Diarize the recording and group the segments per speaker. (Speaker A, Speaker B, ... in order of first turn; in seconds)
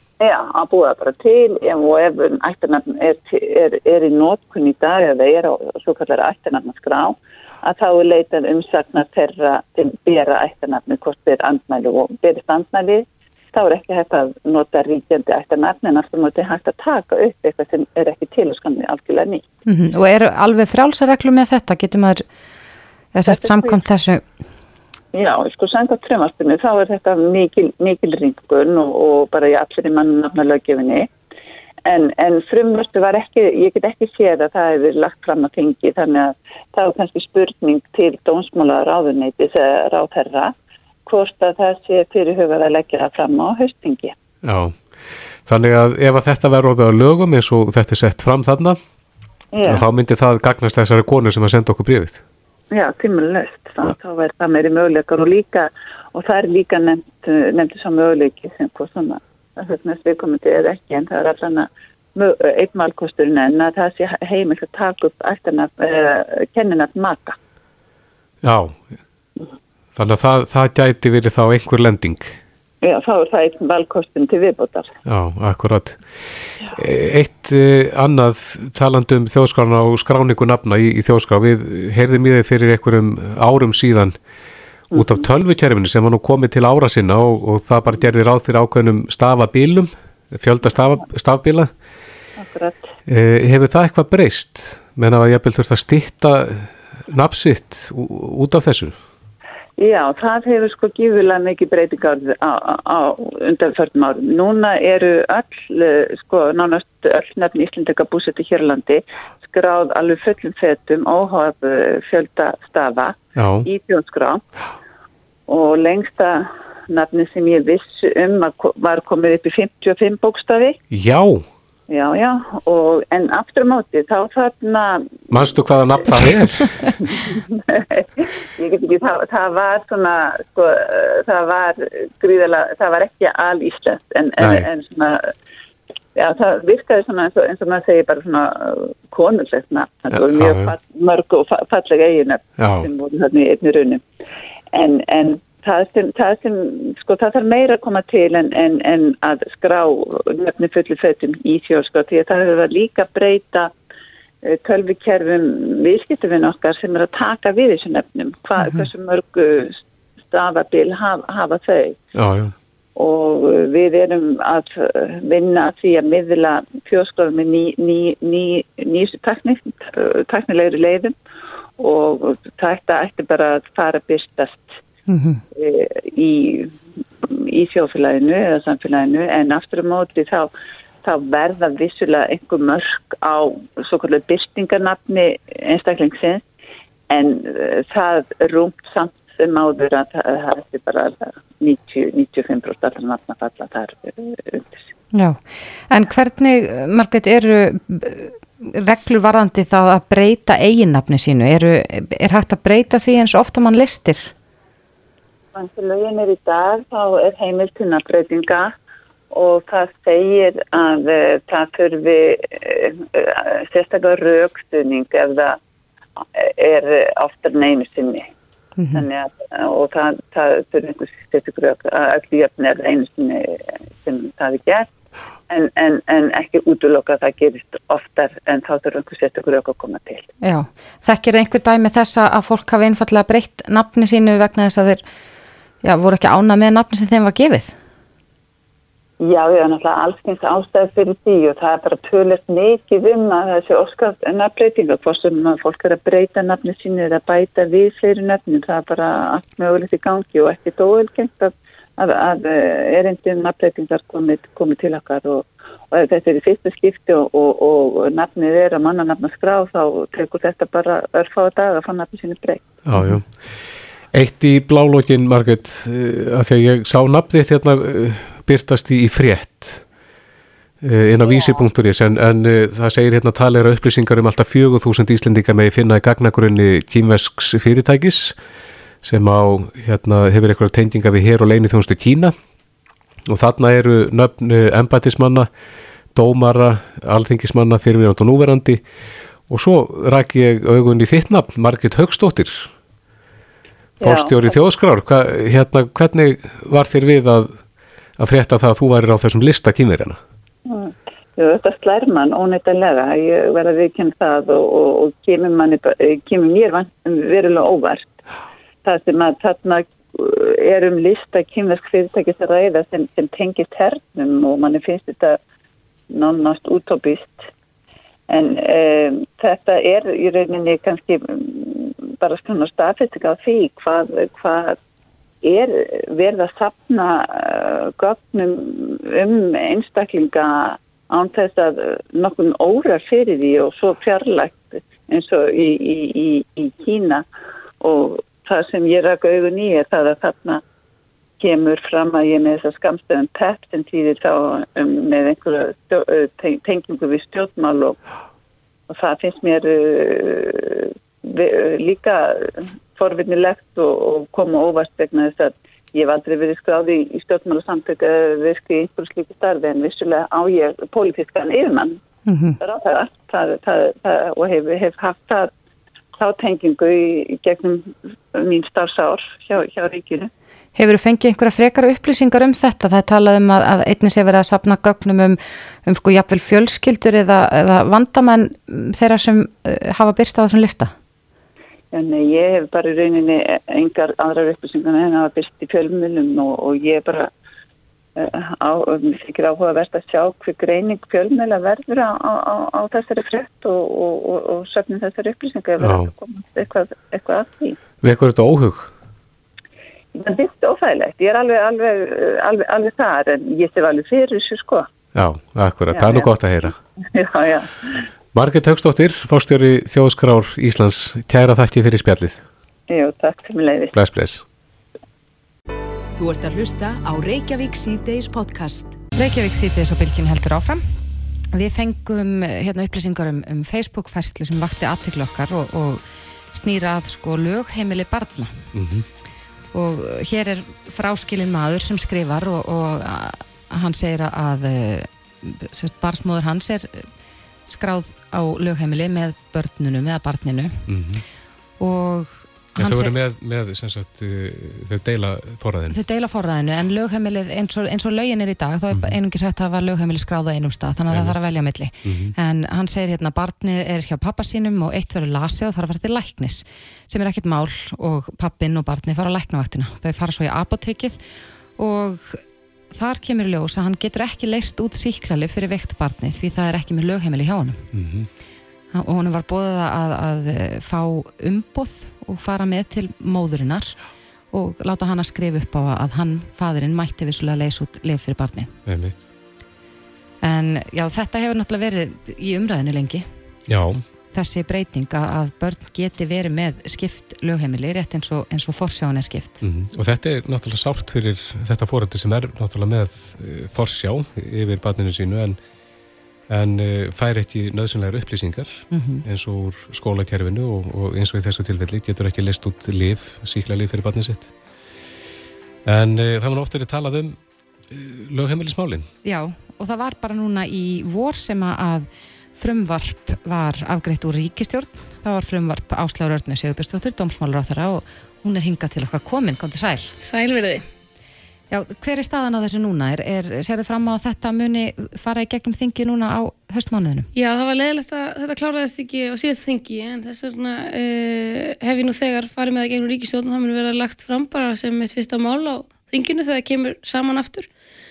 Speaker A: 0.2-19.4, 23.3-23.8, 25.1-31.1, 31.9-40.5, 41.1-44.1, 49.5-49.9, 52.7-67.4, 72.8-74.9, 84.9-85.2, 92.4-92.9, 99.8-114.4, 115.5-120.8, 121.9-125.3, 127.1-135.3, 136.2-144.0, 144.7-153.7, 154.4-159.8, 160.3-162.0, 163.0-171.2, 171.8-174.7, 175.5-176.7, 177.2-180.5, 181.0-186.4, 187.1-194.9, 205.5-208.7, 209.3-215.6, 216.3-218.3, 218.9-224.9, 225.5-230.3, 239.2-262.7, 294.0-294.5, 300.7-308.1, 308.9-315.4, 316.1-317.5, 318.3-324.8, 325.4-337.2, 337.8-340.6, 341.4-348.0, 348.9-362.0, 362.6-365.5, 366.2-370.3, 381.9-387.3, 388.2-397.8, 400.1-404.9, 405.9-406.3, 407.0-408.0, 412.9-413.9
Speaker B: 19.7-22.2, 23.1-24.2, 158.6-158.8, 175.1-175.4, 195.1-204.3, 218.8-219.1, 230.4-235.0, 235.8-237.8, 362.3-362.6, 370.8-380.9, 419.1-420.8, 421.5-428.6, 429.7-437.1, 437.7-440.9, 441.8-443.1, 445.9-461.2, 461.8-467.8, 468.9-474.0, 474.5-478.7, 480.4-483.3, 484.3-489.6, 498.9-499.2, 509.2-520.1, 521.7-527.3
Speaker C: 44.4-44.8, 45.5-48.8, 49.7-52.2, 68.4-68.8, 70.0-72.4, 75.1-76.0, 76.7-84.2, 85.0-91.7, 93.1-99.0, 113.4-113.7, 120.9-121.4, 125.3-127.0, 134.4-134.7, 140.1-140.7, 142.6-142.9, 162.2-162.5, 262.9-263.3, 264.1-269.8, 270.8-278.4, 279.0-282.3, 283.3-285.5, 286.1-288.8, 289.5-292.7, 294.0-297.6, 298.2-300.2, 395.8-396.1, 398.0-398.9, 405.1-406.8, 408.3-412.4, 413.9-414.4, 428.7-429.1, 440.9-441.2, 442.8-446.0, 448.9-449.2, 451.1-451.4, 452.1-452.3, 467.9-468.3, 478.9-479.2, 483.7-484.0, 489.6-495.6, 496.5-504.5, 505.9-507.4, 507.9-509.1
Speaker D: 416.2-419.0
Speaker E: 520.2-520.8, 527.4-537.7